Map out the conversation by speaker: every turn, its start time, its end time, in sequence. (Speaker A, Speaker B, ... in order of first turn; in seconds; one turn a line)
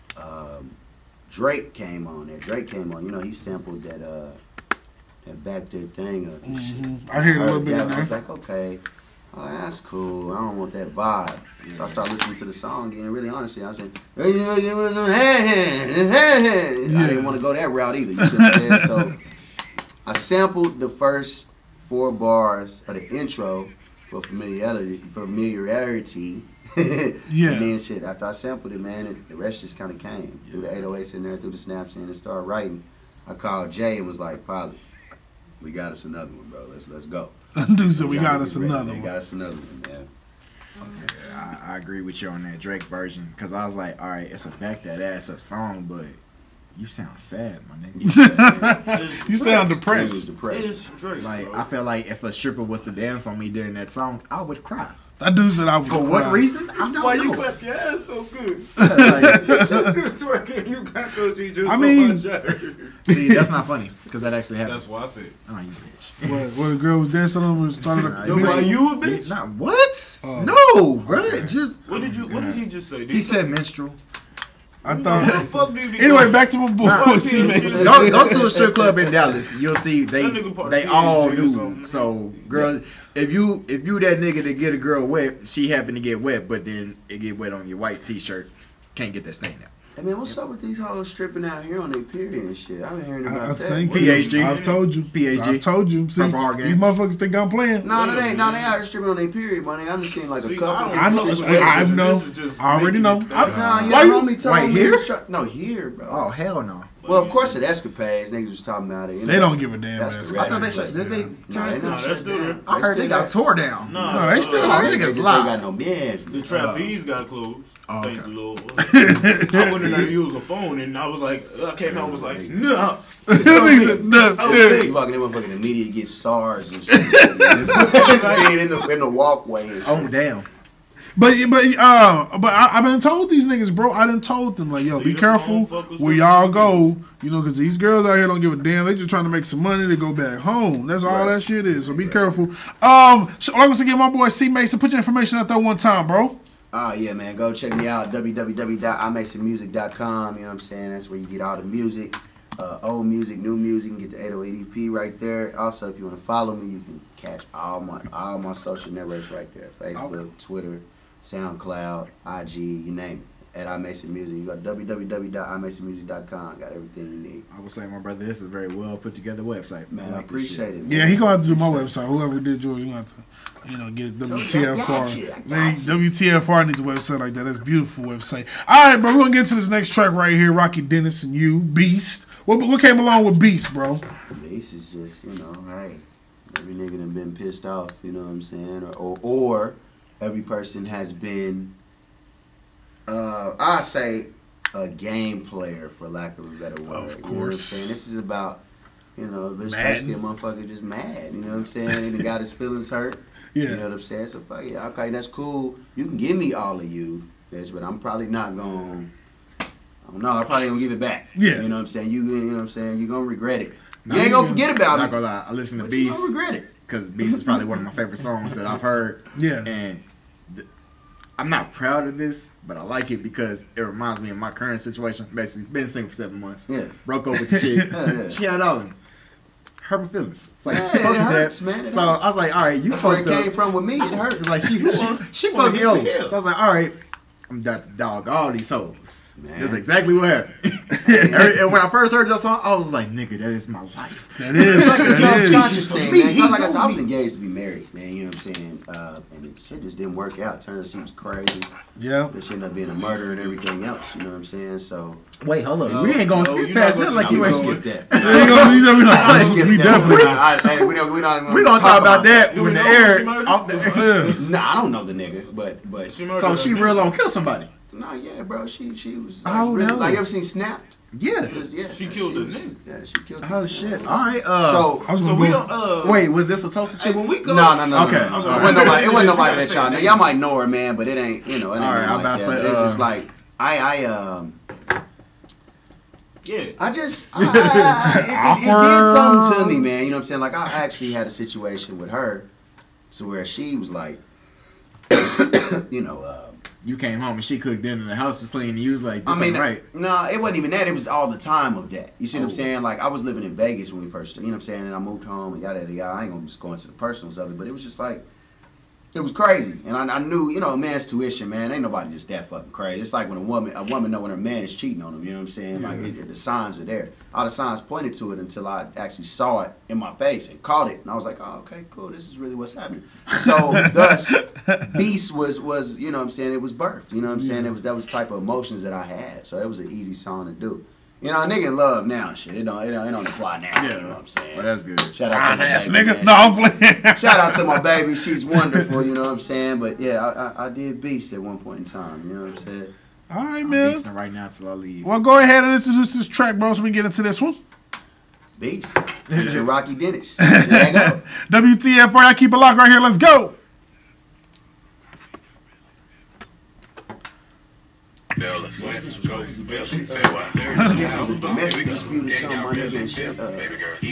Speaker A: 0.1-0.8
Speaker A: 1.3-4.4
Speaker A: 5.2-19.1
Speaker B: 6.5-8.1
Speaker B: 16.9-17.4
Speaker B: 18.2-18.9
Speaker A: 20.1-34.8
Speaker B: 27.3-27.7
Speaker A: 35.6-37.3
Speaker B: 37.5-39.1
Speaker A: 37.9-40.1
Speaker C: 40.8-46.2
Speaker C: 46.7-48.2
Speaker A: 47.9-48.9
Speaker B: 48.0-50.3
Speaker D: 48.9-51.7
Speaker A: 49.8-50.8
Speaker C: 51.2-55.0
Speaker B: 55.2-56.4
Speaker C: 55.8-57.5
Speaker D: 56.8-63.0
Speaker C: 58.8-59.6
Speaker B: 58.8-59.8
Speaker B: 61.6-62.3
Speaker C: 63.1-64.8
Speaker B: 63.1-63.4
Speaker D: 64.6-65.3
Speaker C: 65.5-66.5
Speaker B: 66.2-68.8
Speaker C: 67.9-74.0
Speaker D: 68.2-69.4
Speaker B: 70.2-70.6
Speaker D: 71.8-73.5
Speaker B: 74.8-78.4
Speaker D: 74.8-78.6
Speaker C: 76.8-89.7
Speaker A: 77.8-78.9
Speaker D: 80.1-82.7
Speaker A: 90.0-93.9
Speaker B: 93.2-97.9
Speaker D: 93.8-94.8
Speaker C: 93.9-96.9
Speaker A: 97.8-102.0
Speaker D: 97.9-98.8
Speaker D: 100.4-104.0
Speaker B: 100.9-104.2
Speaker A: 103.3-106.3
Speaker C: 103.4-105.1
Speaker C: 106.0-106.9
Speaker D: 107.0-107.6
Speaker A: 107.0-111.0
Speaker B: 109.2-111.3
Speaker C: 110.3-112.0
Speaker A: 111.5-113.3
Speaker D: 111.5-112.6
Speaker C: 112.7-115.5
Speaker D: 113.8-115.1
Speaker B: 114.0-114.9
Speaker A: 114.5-116.6
Speaker D: 116.3-125.0
Speaker C: 116.5-116.9
Speaker C: 117.9-118.3
Speaker B: 118.8-120.1
Speaker A: 121.8-122.6
Speaker B: 123.3-124.8
Speaker A: 123.3-130.0
Speaker B: 126.9-128.0
Speaker D: 127.6-128.7
Speaker C: 129.8-130.5
Speaker B: 131.2-146.3
Speaker D: 134.8-136.9
Speaker A: 141.0-142.4
Speaker A: 146.7-167.4
Speaker C: 167.5-170.7
Speaker A: 169.9-171.9
Speaker B: 170.8-184.0
Speaker A: 174.2-176.0
Speaker A: 184.3-191.7
Speaker A: 193.1-198.6
Speaker B: 196.9-197.9
Speaker A: 199.2-209.1
Speaker B: 199.6-200.2
Speaker B: 203.5-203.8
Speaker A: 210.0-215.1
Speaker B: 211.3-211.7
Speaker C: 214.0-216.3
Speaker B: 214.1-214.6
Speaker A: 215.8-216.7
Speaker C: 216.8-220.7
Speaker A: 217.2-217.6
Speaker B: 219.3-219.7
Speaker C: 221.4-229.0
Speaker A: 226.7-226.9
Speaker B: 227.5-227.9
Speaker A: 227.9-228.4
Speaker C: 229.8-236.9
Speaker A: 230.7-232.3
Speaker A: 232.9-234.9
Speaker D: 234.8-236.3
Speaker C: 237.5-247.0
Speaker A: 239.4-239.8
Speaker A: 241.0-241.6
Speaker B: 241.1-241.4
Speaker B: 244.4-245.8
Speaker A: 244.6-251.7
Speaker B: 251.9-252.3
Speaker A: 252.3-255.2
Speaker D: 252.9-253.6
Speaker C: 255.4-264.3
Speaker D: 255.8-259.4
Speaker A: 257.1-262.5
Speaker B: 258.1-260.4
Speaker D: 262.5-264.4
Speaker B: 263.9-264.4
Speaker A: 264.4-266.1
Speaker D: 266.0-267.1
Speaker C: 266.3-267.7
Speaker A: 267.9-275.1
Speaker C: 269.4-270.2
Speaker C: 271.1-271.5
Speaker D: 271.4-272.8
Speaker C: 273.4-274.9
Speaker B: 275.0-275.6
Speaker D: 275.0-276.3
Speaker C: 276.0-277.3
Speaker D: 276.9-280.3
Speaker A: 277.4-284.6
Speaker C: 277.9-279.0
Speaker C: 281.7-283.1
Speaker D: 286.4-286.8
Speaker A: 286.8-292.5
Speaker C: 287.4-288.0
Speaker B: 288.3-289.8
Speaker A: 293.1-294.2
Speaker A: 295.1-296.6
Speaker C: 296.8-299.8
Speaker A: 299.2-308.2
Speaker C: 302.3-302.6
Speaker A: 309.1-342.9
Speaker B: 315.8-316.1
Speaker B: 323.7-324.9
Speaker B: 327.4-327.7
Speaker C: 333.8-335.1
Speaker B: 335.3-337.8
Speaker B: 343.3-344.0
Speaker C: 343.6-345.2
Speaker B: 345.0-347.6
Speaker A: 348.6-351.2
Speaker C: 349.3-349.7
Speaker B: 350.4-353.5
Speaker A: 358.8-363.8
Speaker B: 360.7-361.1